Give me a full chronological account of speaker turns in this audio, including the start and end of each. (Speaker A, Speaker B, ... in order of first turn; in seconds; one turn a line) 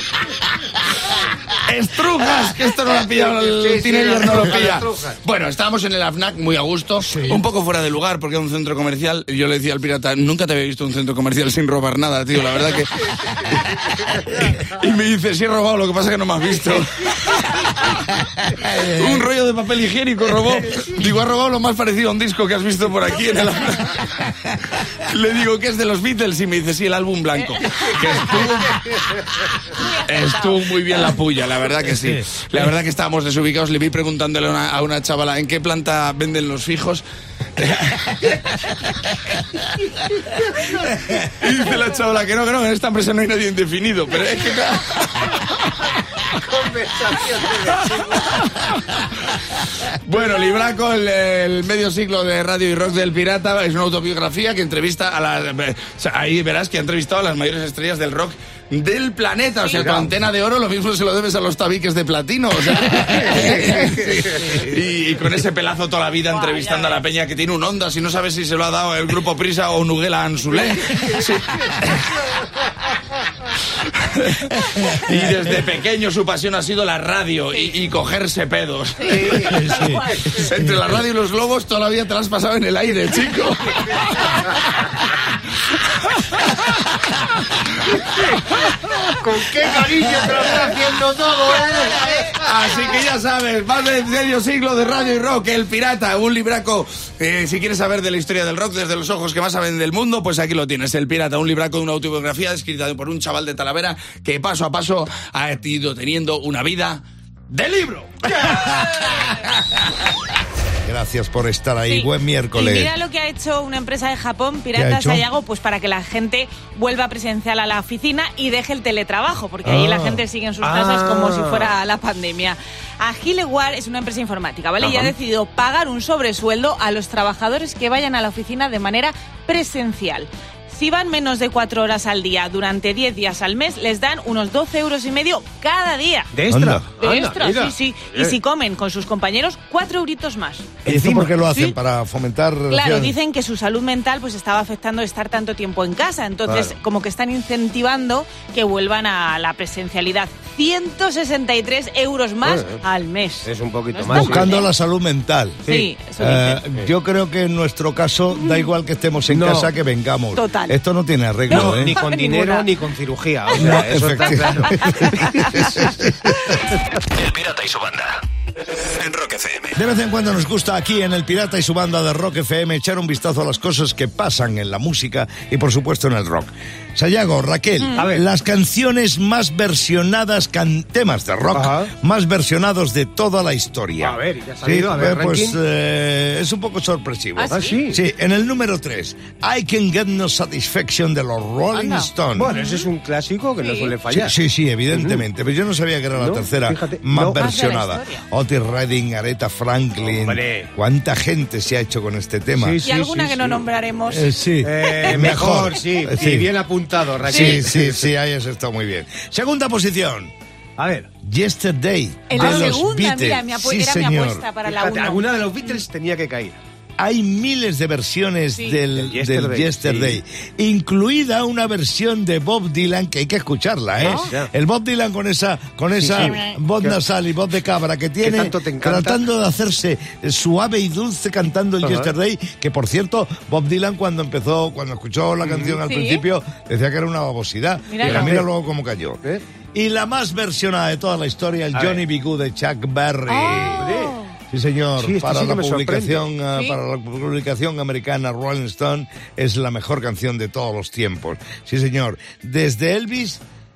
Speaker A: 1.6-24.3
Speaker B: 3.2-5.2
Speaker C: 7.0-7.4
Speaker A: 24.8-28.8
Speaker D: 29.7-30.3
Speaker A: 30.1-37.0
Speaker A: 37.6-39.4
Speaker A: 41.1-45.7
Speaker B: 46.3-48.5
Speaker A: 47.8-48.2
Speaker A: 49.9-72.1
Speaker B: 59.8-60.1
Speaker A: 74.0-79.5
Speaker B: 79.0-79.6
Speaker D: 79.1-80.2
Speaker C: 79.3-80.9
Speaker A: 80.3-84.7
Speaker B: 89.1-92.3
Speaker A: 90.0-90.6
Speaker A: 92.2-109.1
Speaker C: 110.8-112.9
Speaker D: 111.9-136.3
Speaker C: 114.7-115.3
Speaker C: 119.6-120.2
Speaker B: 120.6-121.7
Speaker B: 136.3-138.4
Speaker C: 136.5-136.8
Speaker D: 137.0-140.7
Speaker B: 140.8-141.3
Speaker C: 140.9-143.2
Speaker D: 141.4-141.8
Speaker D: 142.7-154.7
Speaker B: 146.5-146.8
Speaker B: 152.4-152.8
Speaker B: 153.4-154.5
Speaker C: 154.1-155.6
Speaker D: 155.7-156.6
Speaker C: 156.2-162.0
Speaker D: 158.3-158.7
Speaker B: 159.3-159.7
Speaker D: 160.3-160.8
Speaker B: 161.5-165.4
Speaker D: 161.5-162.7
Speaker C: 163.5-166.1
Speaker D: 165.0-165.8
Speaker E: 167.1-168.2
Speaker E: 168.9-169.8
Speaker C: 169.7-192.5
Speaker B: 178.0-178.2
Speaker B: 181.5-181.9
Speaker B: 184.0-185.6
Speaker D: 187.4-187.8
Speaker B: 187.5-188.0
Speaker D: 191.7-192.9
Speaker B: 192.4-194.3
Speaker D: 193.6-193.9
Speaker C: 194.1-202.8
Speaker B: 194.9-195.2
Speaker B: 196.2-197.4
Speaker D: 197.4-198.2
Speaker B: 200.0-200.7
Speaker B: 202.5-203.7
Speaker D: 202.8-204.3
Speaker C: 204.1-206.5
Speaker B: 204.6-208.1
Speaker D: 204.9-205.3
Speaker D: 207.3-207.6
Speaker C: 207.3-210.3
Speaker B: 210.8-211.1
Speaker C: 211.2-214.4
Speaker D: 212.3-215.2
Speaker B: 212.3-212.8
Speaker B: 214.7-216.6
Speaker C: 217.0-239.2
Speaker B: 218.9-220.2
Speaker B: 224.0-224.5
Speaker B: 225.9-227.0
Speaker D: 226.2-226.6
Speaker B: 228.2-229.2
Speaker B: 231.8-232.1
Speaker B: 235.4-235.8
Speaker D: 235.8-236.2
Speaker D: 237.9-238.4
Speaker B: 238.0-238.5
Speaker C: 239.8-243.9
Speaker B: 241.7-242.0
Speaker D: 243.3-244.3
Speaker B: 243.6-244.2
Speaker C: 244.5-253.4
Speaker B: 245.0-246.2